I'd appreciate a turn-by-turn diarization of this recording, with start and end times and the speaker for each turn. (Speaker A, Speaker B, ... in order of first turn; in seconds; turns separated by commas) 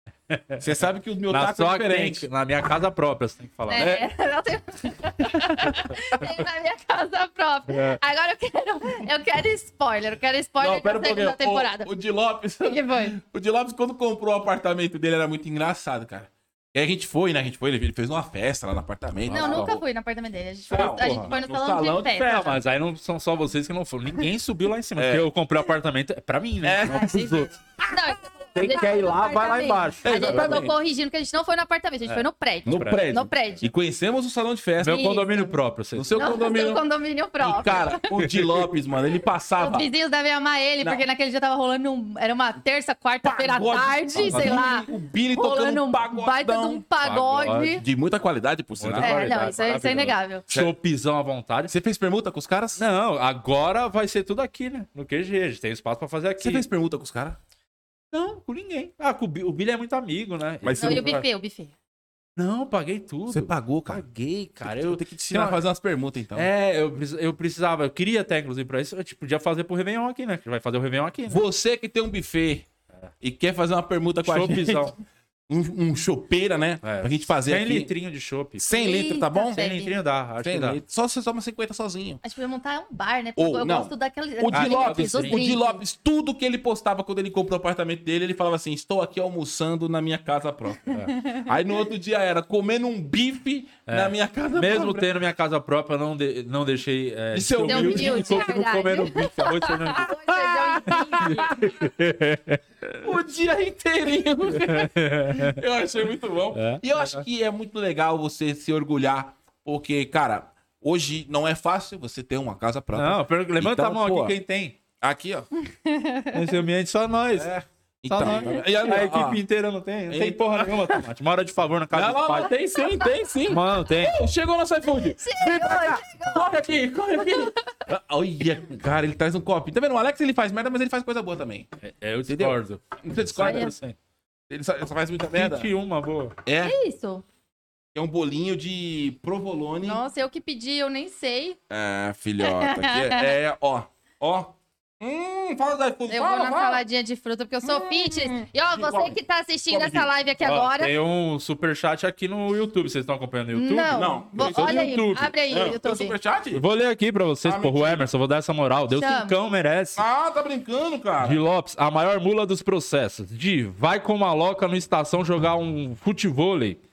Speaker A: 0.3-0.6, Speaker B: 0.6-2.3, Speaker A: 1.3-4.0, Speaker C: 3.7-11.9, Speaker B: 3.7-4.1, Speaker A: 7.7-8.0, Speaker B: 10.6-19.8, Speaker C: 12.6-13.2, Speaker A: 19.3-19.8, Speaker C: 19.3-22.6, Speaker B: 20.7-22.2, Speaker A: 20.7-21.3, Speaker A: 22.1-27.5, Speaker B: 25.0-25.3, Speaker B: 26.6-27.5, Speaker C: 26.9-33.7, Speaker A: 28.6-30.8, Speaker B: 30.0-30.7, Speaker A: 32.0-33.0, Speaker B: 32.6-35.1, Speaker A: 34.8-36.4, Speaker C: 34.8-35.6, Speaker B: 36.0-36.8, Speaker C: 36.1-38.0, Speaker B: 37.4-39.9, Speaker A: 38.2-38.6, Speaker C: 39.6-47.8, Speaker B: 43.2-46.8, Speaker A: 44.2-44.6, Speaker A: 47.0-47.8, Speaker B: 47.7-49.5, Speaker A: 48.8-51.7, Speaker C: 49.0-50.5, Speaker B: 51.7-52.8, Speaker A: 52.8-56.6, Speaker B: 56.4-57.4, Speaker A: 58.1-61.2, Speaker B: 60.6-61.2, Speaker C: 60.8-61.7, Speaker A: 62.4-65.6, Speaker B: 63.3-64.0, Speaker B: 64.6-66.5, Speaker A: 66.3-71.4, Speaker B: 71.3-72.7, Speaker B: 73.2-74.9, Speaker A: 74.2-75.0, Speaker B: 75.5-77.9, Speaker A: 76.8-78.7, Speaker B: 78.6-79.7, Speaker C: 78.7-79.9, Speaker A: 79.5-80.8, Speaker B: 80.4-82.2, Speaker C: 82.2-85.8, Speaker B: 83.4-95.1, Speaker A: 84.5-85.5, Speaker C: 91.1-91.5, Speaker A: 93.9-100.1, Speaker B: 97.3-98.7, Speaker C: 97.6-101.6, Speaker B: 100.1-101.8, Speaker A: 100.9-103.0, Speaker B: 103.0-114.4, Speaker A: 104.5-105.6, Speaker A: 106.5-107.2, Speaker A: 112.9-114.8, Speaker B: 115.0-115.5, Speaker C: 115.7-116.5, Speaker A: 116.3-117.5, Speaker B: 117.3-119.4, Speaker A: 118.1-122.5, Speaker B: 120.1-121.0, Speaker B: 121.9-131.7, Speaker A: 123.5-124.2, Speaker C: 125.0-126.5, Speaker C: 127.2-127.7, Speaker A: 131.8-134.0, Speaker B: 132.3-133.8, Speaker C: 133.4-133.7, Speaker B: 134.5-135.7, Speaker A: 135.3-136.4, Speaker B: 136.4-136.8, Speaker C: 136.6-137.2, Speaker B: 137.9-140.0, Speaker C: 139.8-141.6, Speaker B: 141.7-146.8, Speaker C: 142.4-143.3, Speaker C: 146.1-150.9, Speaker B: 147.7-149.2, Speaker B: 149.7-150.1, Speaker A: 150.4-155.3, Speaker C: 153.5-156.2, Speaker B: 153.9-156.6, Speaker A: 156.5-160.0, Speaker B: 157.4-158.1, Speaker C: 158.9-159.3, Speaker B: 160.0-161.4, Speaker A: 161.2-166.8